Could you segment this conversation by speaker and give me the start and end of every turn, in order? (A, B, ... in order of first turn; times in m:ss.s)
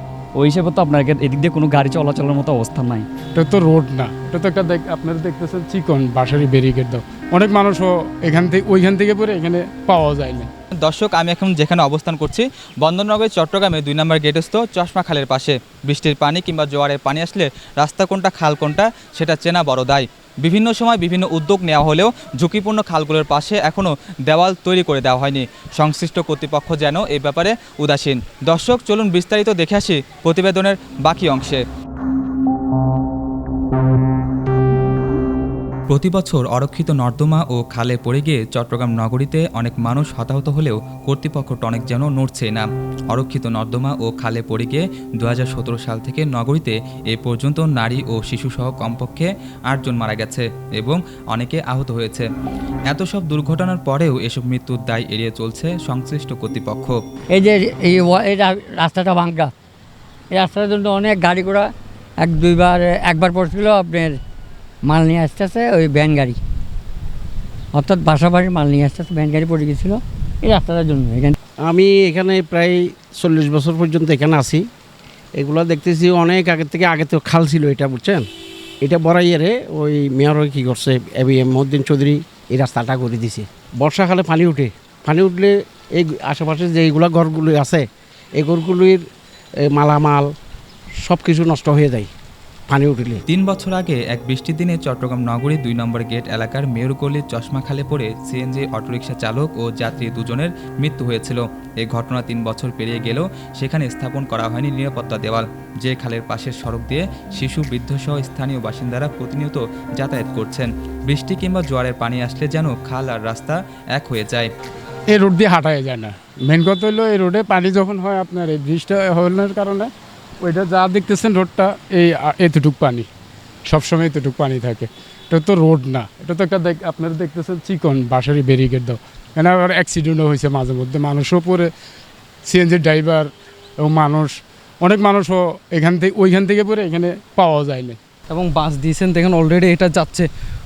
0:00.4-0:03.0 A
0:03.3-0:10.5 B
0:10.8-0:31.6 C
0:35.9-0:52.3 C
0:52.9-0:56.9 C
0:57.3-0:59.5 D
1:00.3-1:04.2 D
1:04.8-1:06.4 D
1:07.7-1:11.4 D
1:11.6-1:14.6 E
1:15.4-1:18.2 E
1:18.8-1:27.8 E
1:28.4-1:29.0 E
1:29.7-1:30.2 E
1:31.0-1:32.1 E
1:32.7-1:33.2 E
1:33.3-1:54.5 C
1:55.1-2:03.1 B
2:03.7-2:11.7 B
2:12.4-2:18.0 B
2:18.3-2:20.3 F